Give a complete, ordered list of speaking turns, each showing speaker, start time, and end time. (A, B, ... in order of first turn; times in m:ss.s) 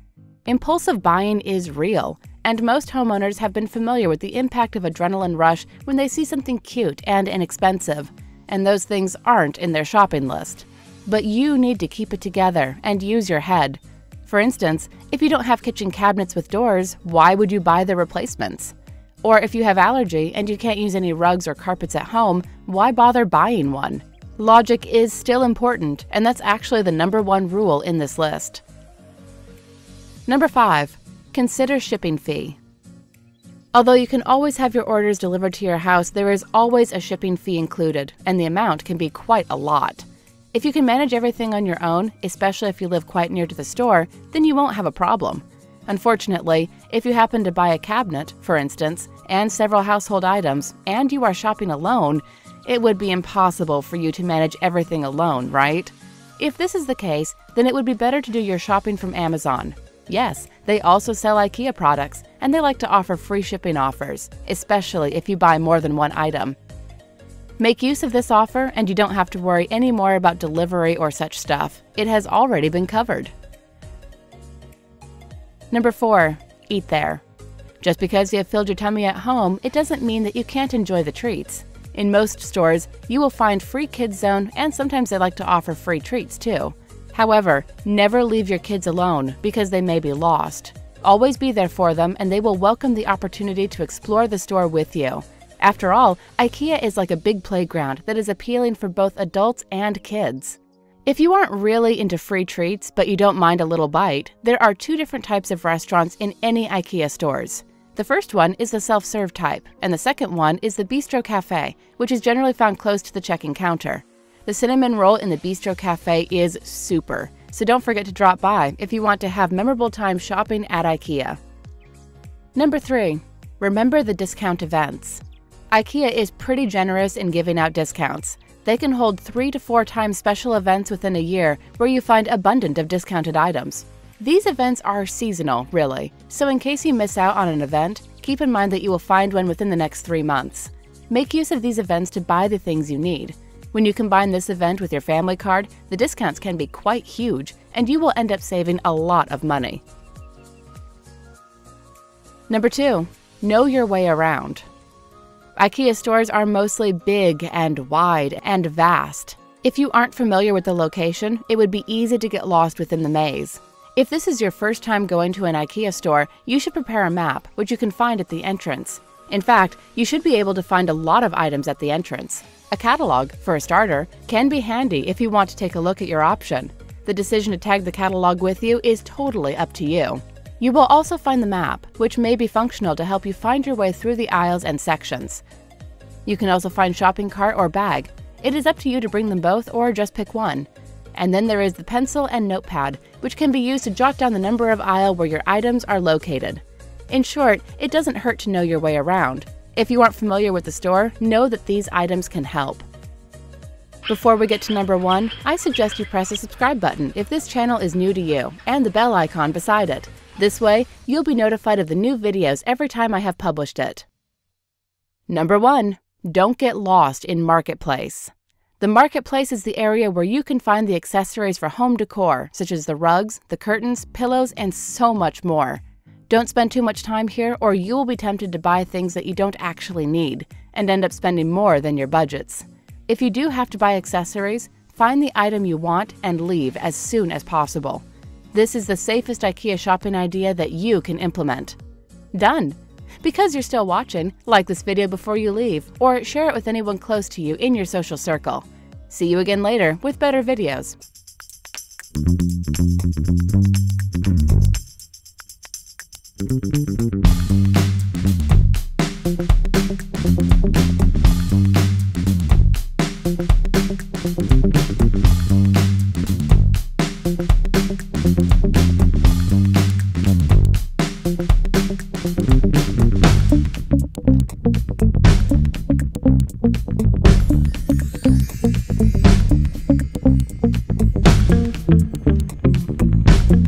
0:00.5-0:28.6 A
0:30.3-0:32.6 A
0:33.7-1:06.6 A
1:07.6-1:13.3 A
1:15.7-1:17.2 A
1:17.8-2:01.4 A
2:02.5-2:29.8 A
2:32.5-2:34.6 A
2:35.6-3:05.4 A
3:06.2-3:22.8 A
3:24.1-3:34.0 A
3:35.3-4:01.8 A
4:02.3-4:11.0 A